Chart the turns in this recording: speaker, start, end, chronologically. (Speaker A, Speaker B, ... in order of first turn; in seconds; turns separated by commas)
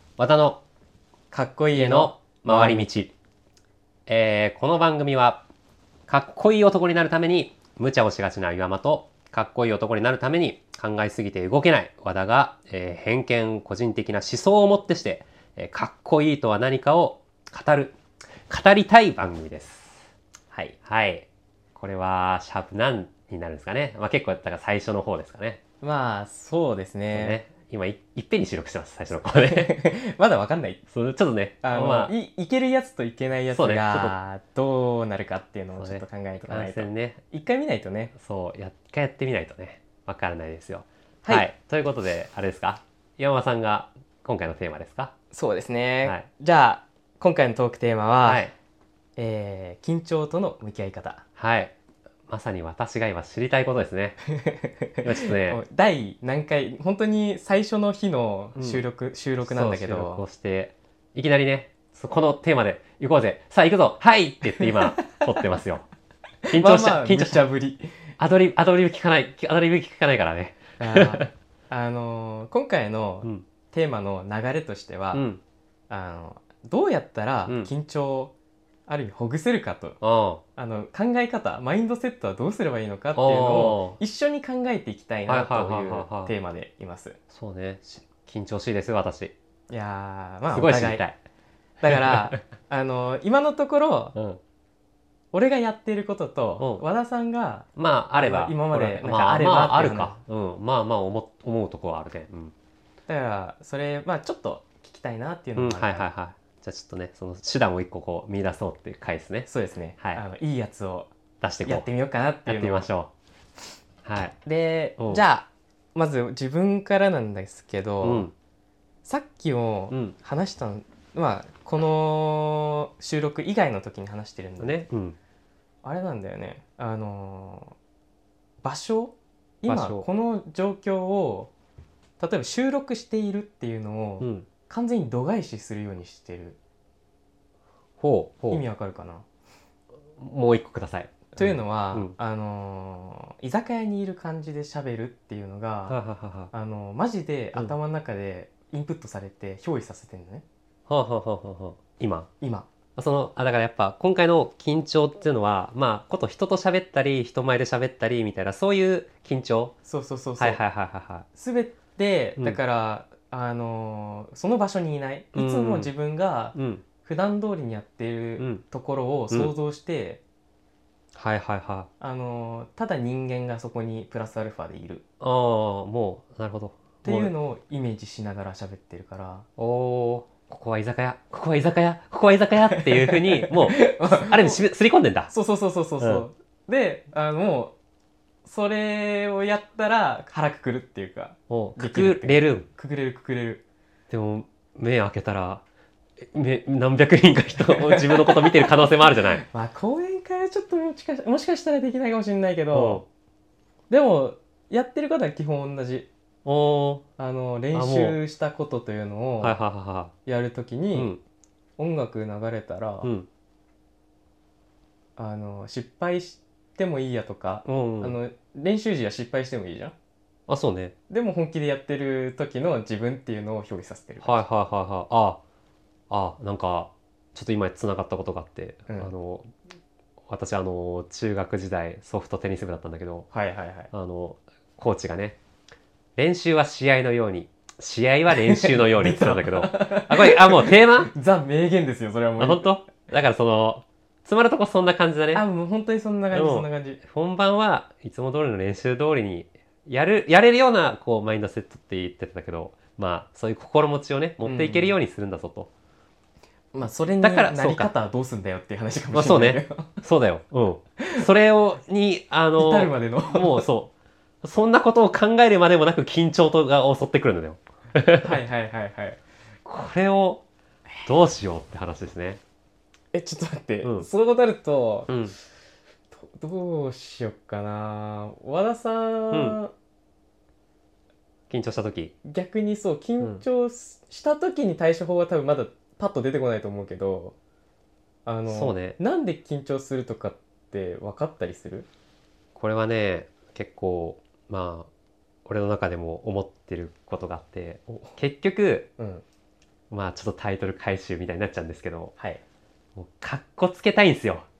Speaker A: 0.2-0.6, Speaker B: 1.3-2.9, Speaker A: 1.7-3.1, Speaker A: 4.1-5.4, Speaker A: 6.1-18.0, Speaker A: 18.5-20.0, Speaker A: 20.9-25.6, Speaker B: 25.8-27.4, Speaker A: 27.1-29.8, Speaker B: 29.1-30.8, Speaker A: 30.9-32.1, Speaker B: 31.6-38.1, Speaker A: 33.5-34.1, Speaker A: 35.8-37.2, Speaker A: 38.2-45.1, Speaker B: 45.3-48.5, Speaker A: 48.2-48.5, Speaker B: 49.2-51.2, Speaker A: 51.4-51.7, Speaker A: 52.3-54.2, Speaker B: 54.3-60.2, Speaker A: 55.0-55.6, Speaker A: 58.5-58.8, Speaker A: 59.4-65.9, Speaker B: 64.6-65.2, Speaker B: 66.5-67.9, Speaker A: 66.5-67.5, Speaker A: 68.2-71.3, Speaker B: 70.8-75.2, Speaker A: 75.1-75.4, Speaker B: 75.9-78.3, Speaker A: 77.5-77.7, Speaker B: 78.9-80.0, Speaker A: 80.0-80.4, Speaker B: 80.6-87.2, Speaker A: 83.1-84.0, Speaker A: 85.3-86.3, Speaker A: 87.3-89.3, Speaker B: 89.7-91.0, Speaker A: 90.5-91.2, Speaker B: 91.8-94.2, Speaker A: 91.9-92.3, Speaker A: 94.2-94.4, Speaker B: 95.3-100.2, Speaker A: 96.6-96.8, Speaker A: 97.8-102.5, Speaker B: 103.1-106.1, Speaker A: 105.6-109.5, Speaker B: 109.5-111.1, Speaker A: 111.4-111.9, Speaker B: 111.7-112.9, Speaker A: 112.5-113.1, Speaker A: 114.0-114.4, Speaker B: 114.5-118.3, Speaker A: 115.0-115.2, Speaker A: 118.0-118.3, Speaker B: 119.0-124.8, Speaker A: 124.6-125.2, Speaker B: 125.8-127.8, Speaker B: 128.6-131.5, Speaker A: 129.7-130.1, Speaker B: 132.2-136.6, Speaker A: 134.2-134.5, Speaker A: 138.0-138.6, Speaker B: 138.5-139.2, Speaker A: 140.2-142.2, Speaker B: 141.4-146.0, Speaker A: 145.9-146.5, Speaker B: 146.5-150.4, Speaker A: 150.9-152.3, Speaker B: 152.4-152.7, Speaker A: 153.0-159.8, Speaker B: 159.8-160.6, Speaker A: 160.4-161.3, Speaker B: 161.3-170.2, Speaker A: 165.3-165.9, Speaker A: 166.6-166.8, Speaker A: 171.2-171.9, Speaker B: 172.0-175.0, Speaker A: 175.2-177.3, Speaker B: 177.0-179.5, Speaker A: 179.6-185.3, Speaker B: 182.7-184.6, Speaker B: 185.3-187.8, Speaker A: 186.0-186.2, Speaker B: 188.4-193.6, Speaker A: 191.5-192.7, Speaker A: 194.1-195.6, Speaker A: 196.3-199.4, Speaker B: 197.6-203.0, Speaker A: 202.7-203.1, Speaker B: 203.9-206.1, Speaker A: 206.4-207.0, Speaker B: 207.2-209.6, Speaker A: 207.7-208.2, Speaker A: 209.4-210.1, Speaker B: 210.2-211.1, Speaker A: 210.9-211.2, Speaker B: 211.8-213.1, Speaker A: 213.0-213.3, Speaker B: 215.2-219.9, Speaker A: 217.7-218.2, Speaker A: 220.5-220.9, Speaker B: 221.1-224.4, Speaker A: 224.2-225.4, Speaker A: 226.1-229.5, Speaker A: 230.3-233.3, Speaker B: 233.3-233.9, Speaker A: 233.9-235.4, Speaker A: 236.2-241.1, Speaker B: 238.3-242.8, Speaker A: 242.4-245.4, Speaker B: 245.3-247.0, Speaker A: 246.3-255.7, Speaker B: 254.4-255.0, Speaker B: 256.7-260.0, Speaker A: 257.2-257.9, Speaker A: 259.1-268.4, Speaker B: 261.0-261.3, Speaker B: 262.6-263.7, Speaker B: 268.2-269.2, Speaker A: 269.6-270.4, Speaker A: 271.1-272.4, Speaker B: 273.1-275.1, Speaker A: 273.8-274.1, Speaker A: 275.1-275.4, Speaker B: 276.1-279.7, Speaker A: 279.3-279.6, Speaker A: 281.5-282.1, Speaker B: 282.2-287.4, Speaker B: 288.3-291.9, Speaker A: 288.5-289.0, Speaker A: 292.6-294.9, Speaker A: 295.4-298.9, Speaker B: 299.0-299.2, Speaker A: 299.9-302.1, Speaker A: 303.0-304.5